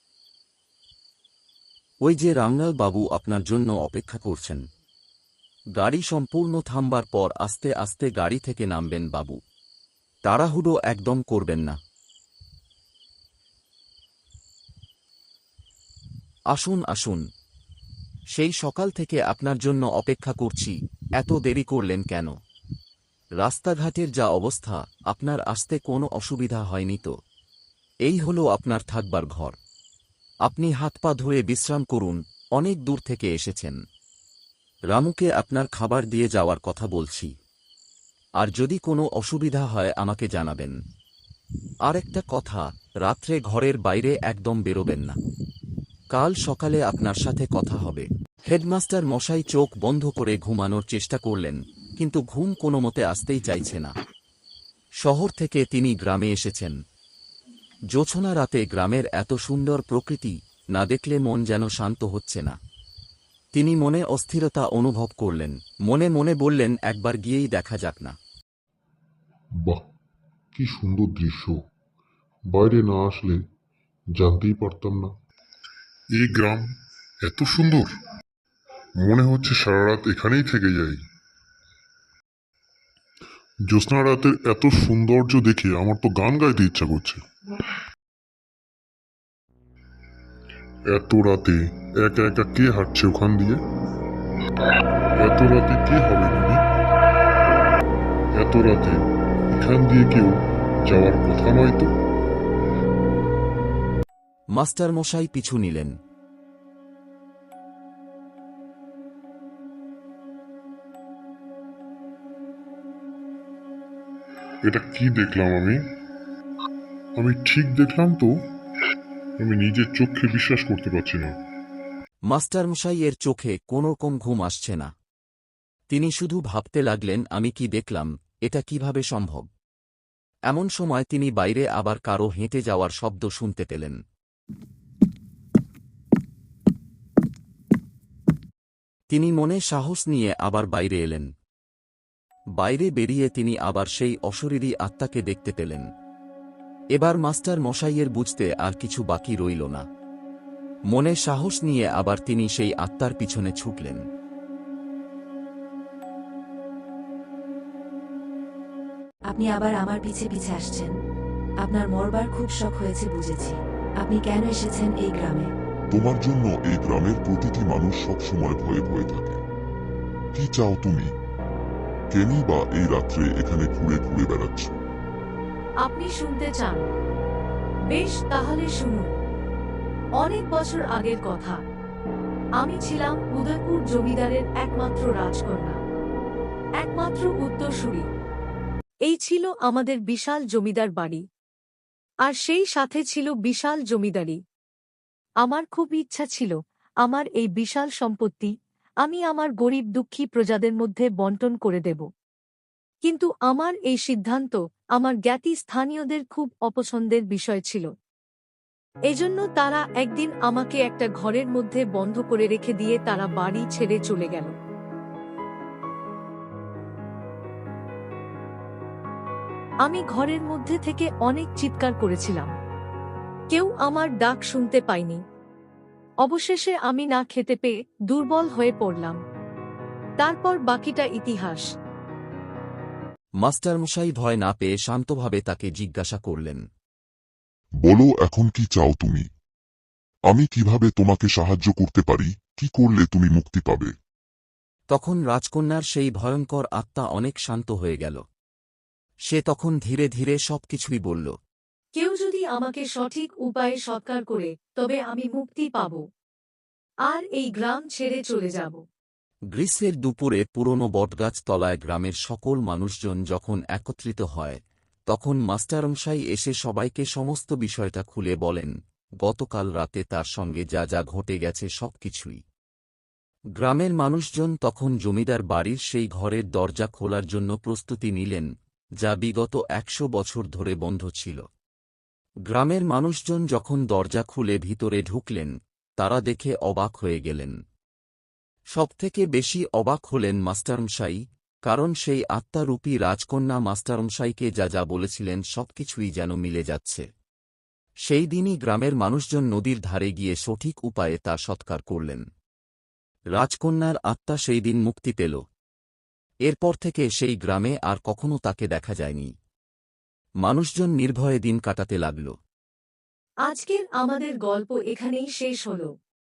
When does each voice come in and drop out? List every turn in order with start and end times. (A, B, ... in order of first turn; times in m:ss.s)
0:02.0-0:04.6 A
0:05.8-0:09.4 A
0:10.2-0:11.8 A
0:16.5-0:17.2 A
0:18.3-0:22.3 A
0:23.4-0:27.1 A
0:28.0-0:29.6 A
0:30.4-0:33.8 A
0:34.9-0:37.3 A
0:38.4-0:40.8 A
0:41.9-0:45.2 A
0:46.1-0:53.9 A
0:55.0-0:56.8 A
0:57.9-1:02.6 A
1:03.5-1:08.2 A
1:10.5-1:11.6 B
1:12.5-1:13.4 B
1:14.2-1:15.1 B
1:16.2-1:16.7 B
1:17.2-1:17.9 B
1:19.0-1:21.0 B
1:23.7-1:27.2 B
1:30.9-1:33.6 B
1:35.2-1:36.6 B
1:38.4-1:41.9 B
1:44.5-1:45.9 A
1:54.6-1:55.8 B
1:57.2-1:58.3 B
1:59.4-2:01.4 B
2:02.3-2:04.9 A
2:05.9-2:09.5 A
2:10.5-2:14.0 A
2:19.1-2:21.3 A
2:22.6-2:25.8 A
2:26.9-2:29.8 A
2:30.9-2:34.0 A
2:39.3-2:41.0 C
2:41.6-2:45.5 C
2:45.9-2:49.4 D
2:50.3-2:51.1 D
2:52.1-2:54.7 D
2:55.8-2:56.9 E
2:57.9-2:59.1 E
3:00.2-3:01.6 E
3:02.6-3:05.8 E
3:06.8-3:08.1 E
3:09.0-3:11.2 E
3:12.2-3:14.4 E
3:15.4-3:16.5 E
3:17.0-3:18.5 E
3:19.0-3:22.0 E
3:23.0-3:27.9 E
3:29.1-3:34.5 E
3:39.8-3:42.5 E
3:43.5-3:45.2 E
3:46.2-3:49.2 E
3:50.2-3:51.7 E
3:53.4-3:56.6 A
3:57.8-3:59.2 D
4:00.3-4:03.9 D
4:04.9-4:08.2 A
4:09.3-4:11.3 A
4:12.0-4:16.0 E
4:17.1-4:18.8 E
4:19.5-4:32.4 A
4:33.6-4:38.5 A
4:39.0-4:41.4 A
4:42.5-4:47.6 A
4:48.7-4:57.0 A
4:58.1-5:02.2 A
5:03.3-5:05.4 A
5:06.4-5:09.3 A
5:10.4-5:12.3 A
5:13.4-5:15.9 E